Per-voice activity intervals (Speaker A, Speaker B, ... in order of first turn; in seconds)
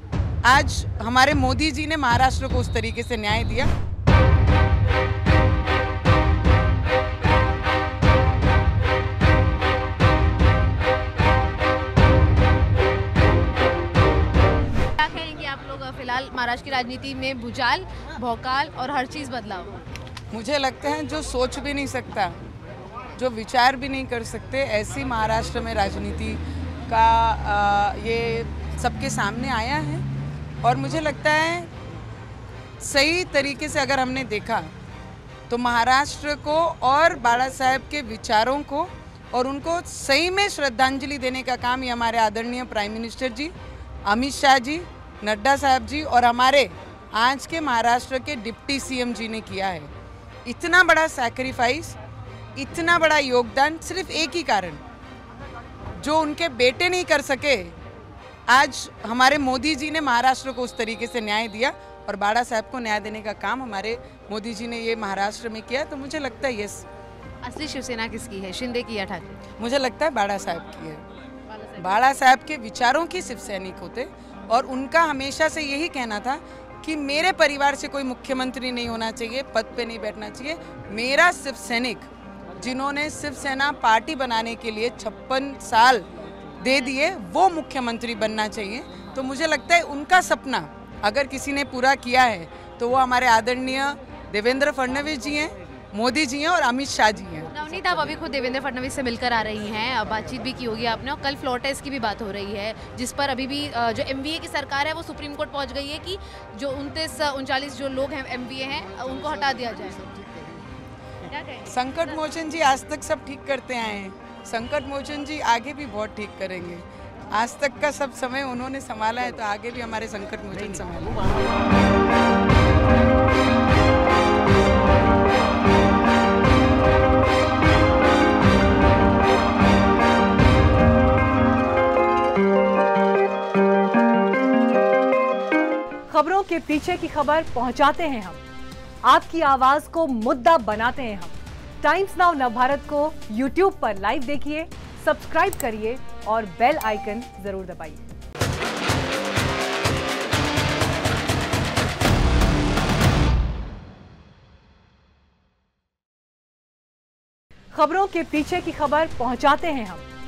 Speaker A: 0.4-3.7, 20.3-22.4, 23.2-30.0, 30.6-31.7, 32.8-34.7, 35.5-43.5, 44.0-49.9, 50.5-52.0, 52.5-54.8, 56.0-57.7, 58.5-66.8, 69.6-71.0, 71.8-97.5, 111.6-121.4
Speaker B: 14.9-19.8, 67.4-69.4, 97.5-110.4
Speaker C: 136.1-138.4, 139.1-148.0, 157.7-160.1